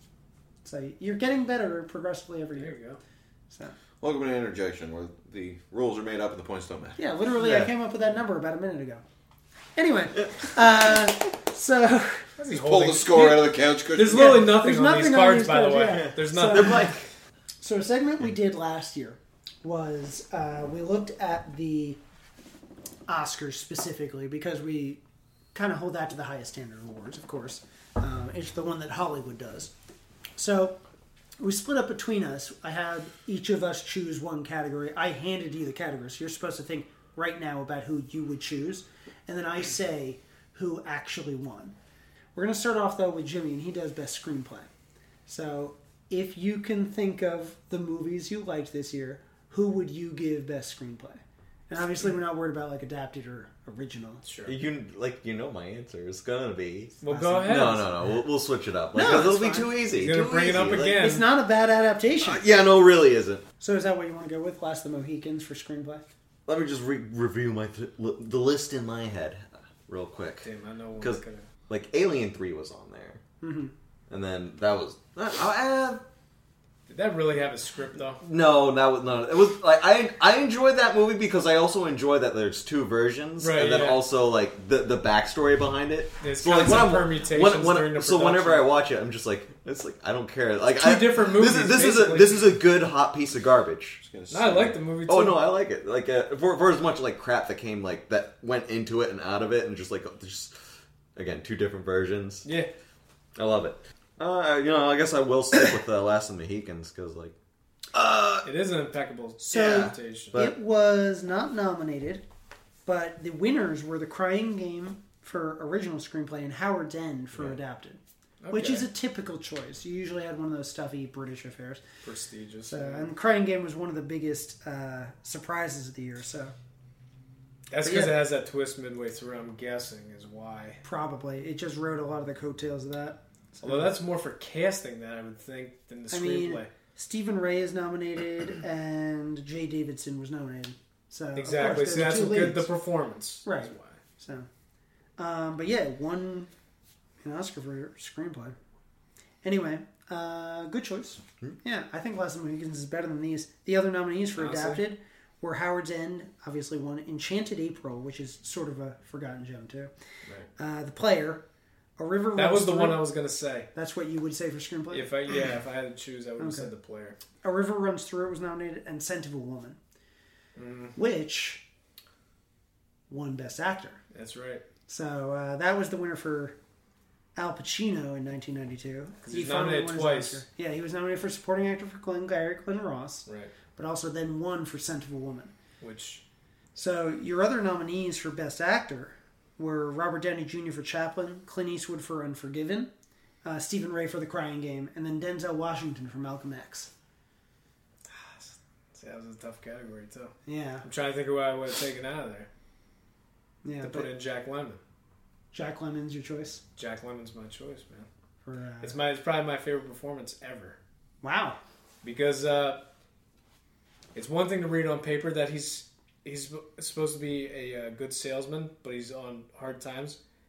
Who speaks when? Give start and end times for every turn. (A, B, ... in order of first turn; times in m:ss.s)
0:00.6-0:02.7 A
0:02.6-0:03.0 B
0:04.0-0:07.0 C
0:07.0-0:09.0 A
0:07.4-0:07.7 B
0:09.8-0:12.3 A
0:12.4-0:16.9 B
0:12.5-0:14.4 C
0:14.1-0:17.0 A
0:16.5-0:16.9 D
0:17.6-0:22.0 A
0:23.1-0:25.0 A
0:25.5-0:29.7 A
0:30.4-0:30.8 A
0:31.4-0:41.7 A
0:42.3-0:44.7 A
0:45.3-0:54.2 A
0:54.2-0:54.5 B
0:54.4-1:01.0 D
0:57.0-0:57.8 B
0:57.0-0:57.9 A
0:58.9-0:59.8 A
0:59.9-1:01.2 B
1:00.8-1:02.4 A
1:02.2-1:03.4 D
1:03.6-1:06.0 A
1:06.4-1:10.5 D
1:10.4-1:11.4 B
1:11.0-1:13.2 D
1:13.4-1:13.7 A
1:14.1-1:16.0 D
1:16.9-1:18.2 B
1:18.2-1:34.0 D
1:23.4-1:24.0 B
1:26.2-1:28.7 B
1:30.8-1:32.6 B
1:34.0-1:34.8 C
1:34.3-1:35.5 B
1:35.1-1:40.6 D
1:41.2-1:42.5 D
1:42.4-1:42.7 B
1:43.4-1:47.3 D
1:47.9-1:48.4 D
1:48.4-1:50.4 B
1:49.4-1:52.2 A
1:49.5-1:50.5 D
1:52.8-1:58.0 A
1:58.4-1:58.9 B
1:58.5-2:01.8 A
2:02.0-2:03.1 B
2:02.6-2:06.5 A
2:07.7-2:10.8 B
2:07.8-2:08.2 A
2:10.8-2:13.9 A
2:13.6-2:16.7 B
2:16.1-2:22.7 A
2:21.4-2:24.0 B
2:23.4-2:24.5 A
2:25.2-2:26.5 A
2:27.2-2:28.6 A
2:29.4-2:39.9 A
2:34.4-2:34.8 B
2:40.6-2:41.4 A
2:42.0-2:43.1 A
2:42.4-2:43.7 B
2:43.7-2:45.1 A
2:44.9-2:47.2 B
2:46.4-2:46.7 A
2:47.4-2:49.8 A
2:50.6-2:50.9 B
2:51.0-2:51.6 A
2:53.1-2:54.0 A
2:54.1-2:54.6 B
2:54.9-2:56.5 A
2:57.4-3:05.5 A
2:59.2-3:00.4 B
3:03.2-3:03.5 B
3:05.8-3:06.2 B
3:06.7-3:12.9 A
3:13.4-3:16.9 A
3:18.1-3:22.5 B
3:20.4-3:20.8 A
3:23.6-3:24.1 A
3:23.8-3:24.8 B
3:25.5-3:26.6 A
3:26.8-3:28.1 B
3:28.4-3:29.0 A
3:28.8-3:30.8 B
3:31.2-3:31.6 A
3:32.0-3:32.8 B
3:34.1-3:40.2 B